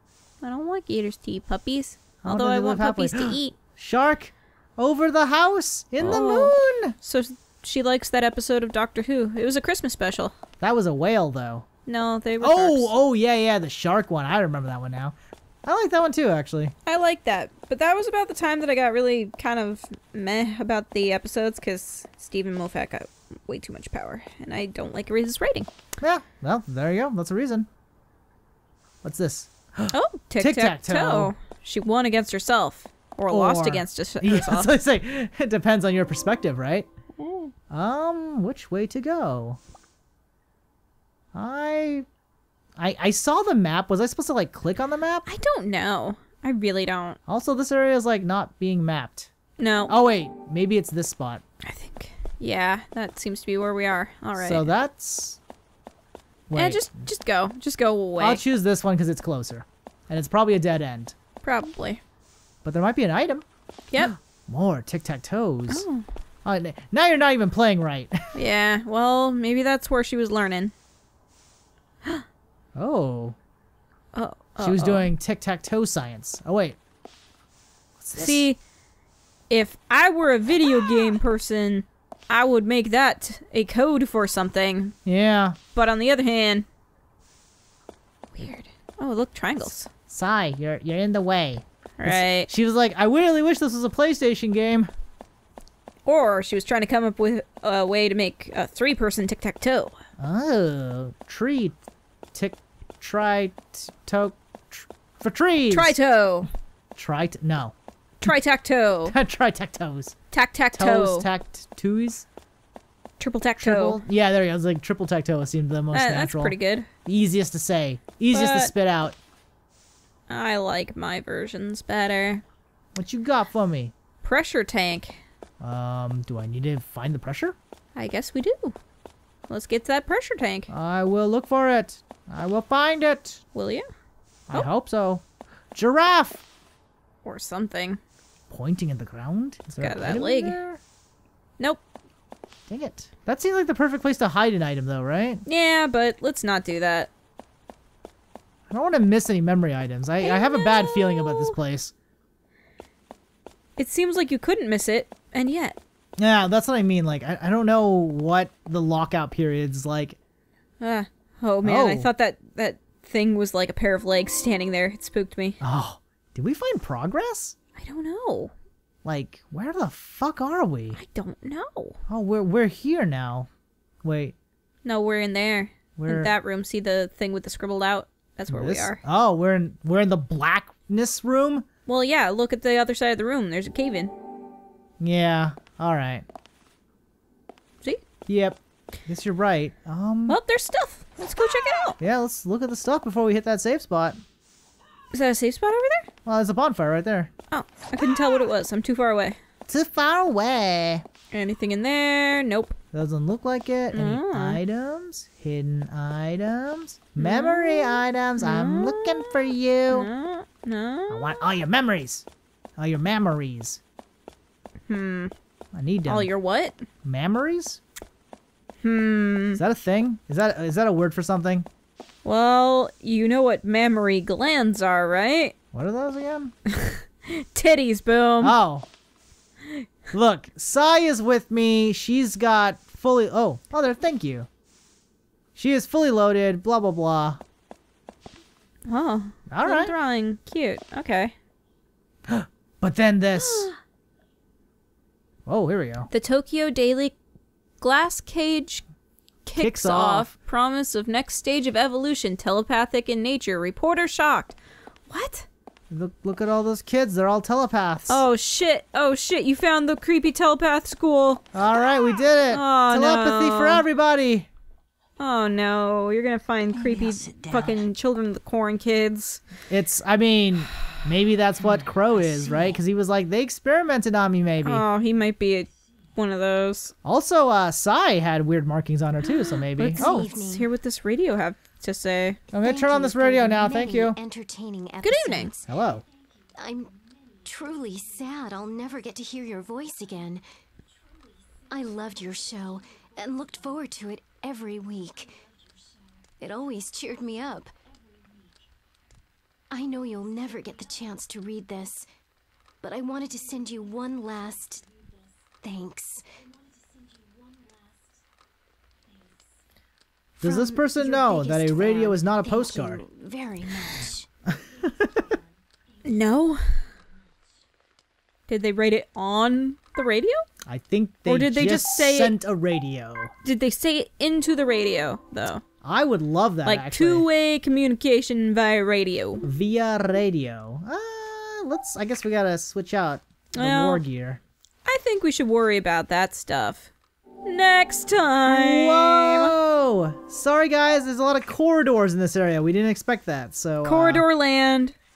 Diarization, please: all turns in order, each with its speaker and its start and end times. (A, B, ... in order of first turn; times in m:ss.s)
0:00.4-0:03.6 A
0:02.2-0:06.9 B
0:06.0-0:10.3 A
0:10.6-0:11.6 B
0:11.9-0:12.9 A
0:12.4-0:16.7 B
0:16.9-0:25.7 A
0:26.0-0:27.7 B
0:29.0-0:31.3 B
0:29.9-0:34.7 A
0:33.3-0:36.9 B
0:37.2-0:37.5 A
0:37.7-0:39.6 B
0:41.3-0:42.1 B
0:42.8-0:45.3 B
0:45.3-0:47.2 A
0:47.3-0:49.3 B
0:49.6-0:49.9 A
0:49.9-0:51.4 B
0:51.6-0:54.6 A
0:54.4-0:55.4 B
0:56.5-0:56.9 B
0:56.5-0:58.4 A
0:58.2-1:01.1 B
1:01.4-1:02.0 A
1:02.6-1:03.4 B
1:04.0-1:05.8 B
1:05.7-1:06.0 A
1:06.4-1:08.2 B
1:08.4-1:10.7 A
1:12.8-1:13.4 B
1:14.1-1:15.1 A
1:14.6-1:16.8 B
1:18.0-1:18.4 B
1:18.2-1:18.6 A
1:19.5-1:24.9 A
1:25.0-1:25.6 B
1:25.8-1:26.6 A
1:28.3-1:29.9 A
1:30.1-1:34.9 B
1:32.0-1:32.5 A
1:36.1-1:39.9 A
1:40.2-1:41.8 B
1:42.3-1:45.9 B
1:45.7-1:46.5 A
1:47.0-1:47.7 B
1:48.2-1:49.2 A
1:49.1-1:50.1 B
1:50.3-1:51.3 A
1:50.7-1:52.2 B
1:53.2-1:54.0 A
1:53.6-1:59.2 B
1:55.9-1:56.9 A
1:58.3-1:58.7 A
2:00.3-2:02.4 A
2:02.9-2:03.9 B
2:04.2-2:05.2 A
2:05.6-2:07.6 B
2:07.9-2:08.8 A
2:09.5-2:10.7 A
2:10.7-2:13.4 B
2:13.5-2:13.9 A
2:14.5-2:16.4 B
2:17.2-2:18.0 A
2:18.5-2:20.8 B
2:19.8-2:20.6 A
2:22.7-2:25.4 B
2:25.4-2:27.1 A
2:28.7-2:31.9 B
2:30.2-2:31.6 A
2:33.8-2:35.8 A
2:36.2-2:40.2 B
2:40.8-2:45.6 A
2:41.6-2:42.1 B
2:45.6-2:47.6 B
2:47.8-2:48.5 A
2:49.0-2:51.0 B
2:50.9-2:52.0 A
2:52.1-2:53.5 B
2:54.0-2:54.4 B
2:54.8-2:59.0 A
2:56.0-2:56.3 B
2:58.5-3:01.6 B
3:01.9-3:04.1 A
3:05.0-3:06.2 B
3:08.3-3:10.4 B
3:10.3-3:12.0 A
3:12.0-3:14.2 B
3:15.1-3:16.1 A
3:16.2-3:17.3 B
3:17.5-3:19.4 A
3:19.7-3:21.0 B
3:21.3-3:22.8 A
3:22.9-3:30.1 B
3:23.9-3:24.6 A
3:27.2-3:31.4 A
3:31.1-3:32.2 B
3:32.8-3:33.8 B
3:34.9-3:35.3 A
3:35.7-3:36.3 B
3:36.1-3:36.8 A
3:37.0-3:37.8 B
3:38.8-3:39.6 A
3:39.6-3:41.6 B
3:42.2-3:45.6 A
3:45.7-3:46.5 B
3:46.7-3:48.6 A
3:48.4-3:48.9 B
3:50.1-3:54.5 B
3:55.6-3:57.4 B
3:58.9-4:01.3 A
3:59.5-3:59.9 B
4:02.3-4:03.7 B
4:03.4-4:03.8 A
4:05.4-4:06.1 B
4:06.1-4:07.1 A
4:07.8-4:08.8 A
4:09.4-4:14.6 A
4:09.6-4:10.3 B
4:15.1-4:15.5 A
4:15.9-4:18.2 B
4:18.1-4:21.4 A
4:21.5-4:24.5 B
4:22.5-4:23.8 A
4:25.2-4:29.4 A
4:26.7-4:27.8 C
4:29.7-4:34.8 B
4:32.1-4:32.8 C
4:34.6-4:36.9 A
4:37.0-4:40.3 B
4:39.2-4:42.4 A
4:39.8-4:40.7 C
4:42.5-4:44.2 B
4:42.5-4:45.7 C
4:45.0-4:45.5 A
4:45.7-4:46.0 B
4:46.6-4:50.4 C
4:51.7-4:55.4 C
4:56.4-4:57.7 C
4:59.7-5:02.1 C
5:02.8-5:04.9 C
5:05.6-5:06.2 C
5:10.4-5:14.3 C
5:10.4-5:13.0 B
5:14.5-5:15.2 B
5:16.0-5:16.9 A
5:18.5-5:20.4 A
5:20.6-5:23.3 B
5:21.3-5:22.4 A
5:23.4-5:25.6 A
5:25.8-5:27.3 B
5:26.6-5:29.4 A
5:29.4-5:34.4 B
5:33.6-5:34.0 A
5:34.9-5:36.9 A
5:37.4-5:39.6 A
5:38.5-5:44.2 B
5:43.8-5:44.9 A